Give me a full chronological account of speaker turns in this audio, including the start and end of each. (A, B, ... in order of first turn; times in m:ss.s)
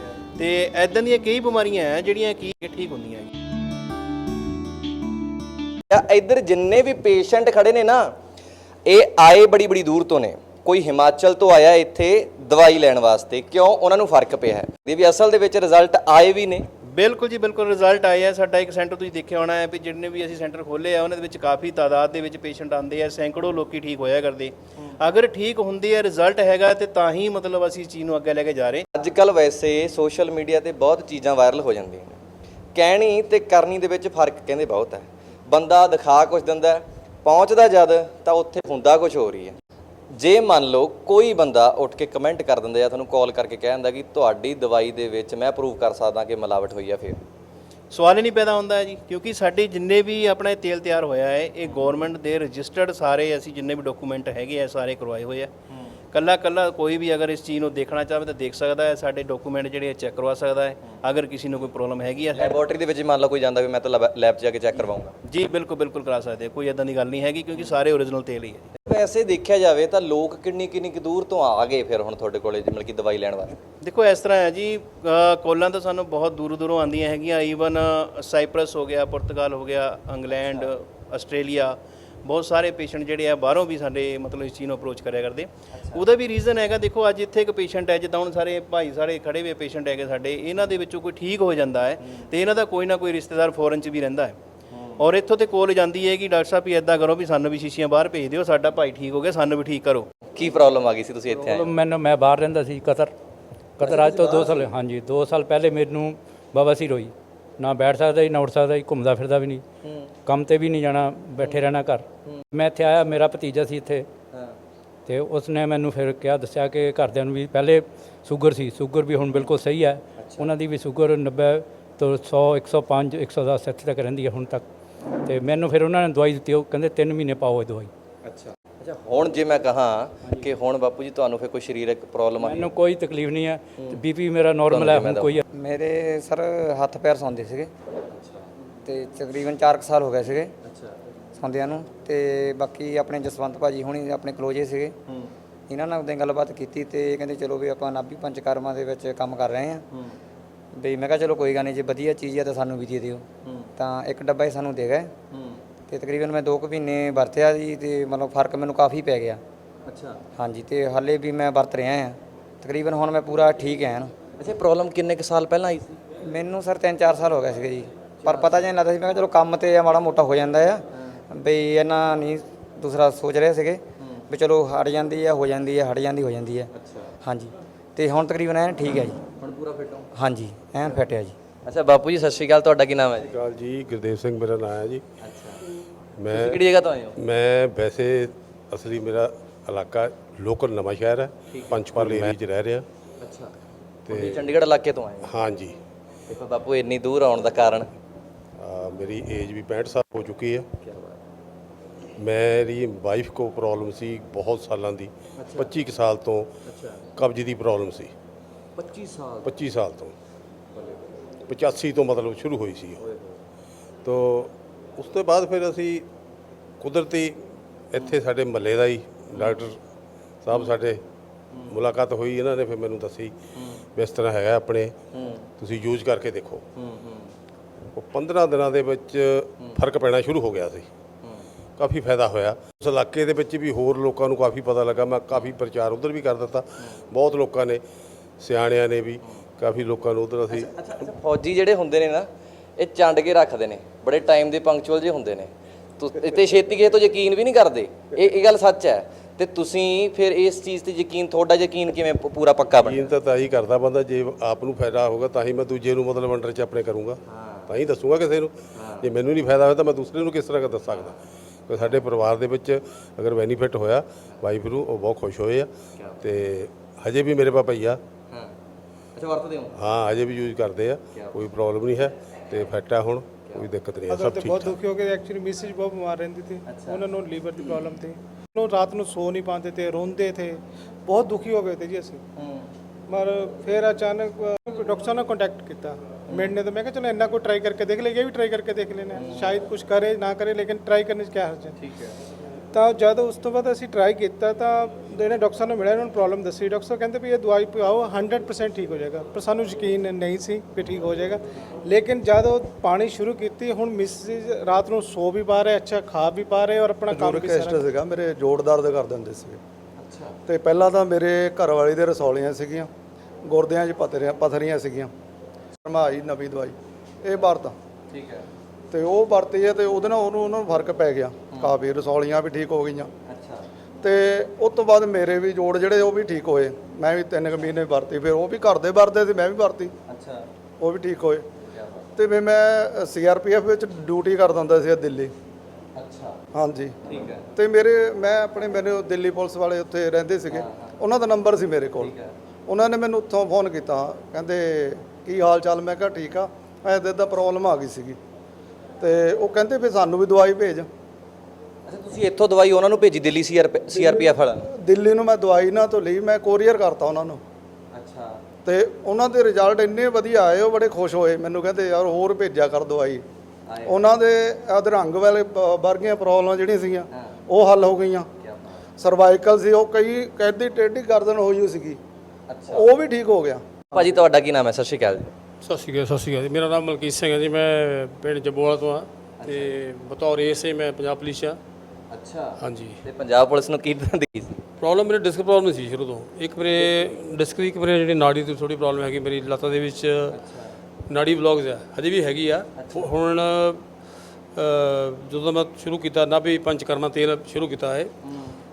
0:00.4-0:03.3 A
0:05.9-0:08.1 B
0:08.8-0:16.7 B
0:16.9-0:28.8 A
0:28.9-0:32.2 B
0:32.7-0:39.6 B
0:40.2-0:47.2 B
0:47.9-0:55.5 A
0:51.6-0:52.0 B
0:55.7-0:56.0 B
0:56.1-1:02.6 A
1:02.3-1:05.1 B
1:05.3-1:08.7 A
1:08.8-1:13.6 B
1:13.8-1:34.4 A
1:20.4-1:20.7 B
1:25.7-1:26.0 B
1:32.0-1:32.3 B
1:34.7-1:35.0 B
1:35.0-1:40.0 A
1:40.3-1:41.7 B
1:41.5-1:43.1 C
1:43.8-1:44.7 B
1:43.9-1:49.6 C
1:49.8-1:50.1 B
1:50.2-1:54.1 C
1:51.4-1:51.7 B
1:55.1-2:04.6 C
1:59.3-1:59.6 B
2:00.2-2:00.5 B
2:05.3-2:07.9 C
2:08.2-2:12.7 B
2:12.6-2:15.4 C
2:13.8-2:14.0 B
2:14.7-2:15.4 B
2:15.5-2:17.7 D
2:18.1-2:18.5 B
2:18.8-2:20.5 D
2:20.6-2:21.0 B
2:21.4-2:25.0 D
2:25.1-2:25.3 B
2:25.7-2:29.8 D
2:29.9-2:30.2 B
2:30.7-2:35.1 D
2:33.4-2:33.7 B
2:35.3-2:35.6 B
2:35.9-2:39.4 D
2:39.8-2:40.2 B
2:40.4-2:44.1 D
2:44.4-2:46.0 B
2:46.2-2:56.7 D
2:48.2-2:48.7 B
2:50.9-2:51.2 B
2:54.0-2:54.2 B
2:56.7-2:57.1 B
2:57.2-2:59.2 D
2:59.4-3:00.1 B
3:00.1-3:01.3 D
3:01.6-3:03.3 B
3:03.2-3:05.0 E
3:05.2-3:05.6 B
3:06.2-3:06.6 E
3:06.3-3:07.2 B
3:07.2-3:12.8 E
3:11.5-3:12.3 B
3:13.2-3:13.5 B
3:14.1-3:14.5 E
3:14.1-3:15.3 B
3:15.2-3:15.8 E
3:16.3-3:17.9 B
3:18.6-3:20.7 E
3:20.8-3:21.2 B
3:22.2-3:26.5 E
3:25.4-3:25.7 B
3:26.6-3:27.0 B
3:27.2-3:28.1 E
3:28.8-3:29.6 B
3:29.4-3:30.1 E
3:30.7-3:31.1 B
3:31.5-3:33.0 E
3:33.0-3:33.4 B
3:34.0-3:36.0 E
3:36.8-3:39.8 E
3:39.3-3:39.6 B
3:40.4-3:41.0 E
3:40.5-3:40.8 B
3:41.7-3:43.3 E
3:43.6-3:43.8 B
3:43.9-3:44.9 E
3:45.1-3:45.4 B
3:45.6-3:46.6 E
3:46.8-3:47.3 B
3:47.9-3:50.9 E
3:51.8-3:57.8 E
3:58.4-4:00.7 E
4:00.5-4:13.1 B
4:12.8-4:21.1 E
4:17.2-4:17.7 B
4:18.7-4:19.1 B
4:20.9-4:21.2 B
4:21.7-4:25.7 E
4:21.8-4:22.0 B
4:26.0-4:26.2 B
4:26.2-4:28.0 E
4:29.1-4:29.8 B
4:29.7-4:34.8 E
4:34.2-4:42.2 F
4:36.6-4:37.8 B
4:42.4-4:42.7 B
4:43.1-4:51.7 F
4:46.3-4:46.6 B
4:49.1-4:49.7 B
4:51.8-4:52.1 B
4:52.7-5:07.8 F
5:07.1-5:09.6 G
5:10.0-5:10.4 B
5:10.4-5:12.9 G
5:13.4-5:15.1 G
5:15.8-5:17.7 G
5:18.1-5:18.4 B
5:18.9-5:23.1 G
5:23.2-5:23.6 B
5:24.0-5:29.9 G
5:30.1-5:30.4 B
5:30.8-5:31.4 G
5:31.6-5:32.1 B
5:32.2-5:35.3 G
5:35.9-5:36.4 B
5:36.5-5:37.0 G
5:37.0-5:37.4 B
5:37.5-5:42.1 G
5:40.5-5:41.0 B
5:42.0-5:42.3 B
5:42.7-5:48.2 G
5:49.0-5:50.9 G
5:51.8-5:54.7 B
5:53.9-5:57.4 G
5:57.9-5:58.4 B
5:58.6-6:03.2 G
6:03.7-6:04.0 B
6:03.8-6:08.3 G
6:07.1-6:07.4 B
6:08.4-6:08.8 B
6:09.0-6:12.0 G
6:12.5-6:12.9 B
6:12.7-6:14.1 G
6:13.9-6:15.3 B
6:15.6-6:21.6 H
6:19.4-6:19.8 B
6:22.1-6:24.6 B
6:22.6-6:23.0 H
6:24.8-6:30.4 H
6:30.3-6:30.7 B
6:31.1-6:33.9 H
6:32.7-6:33.2 B
6:34.5-6:38.1 H
6:38.2-6:38.6 B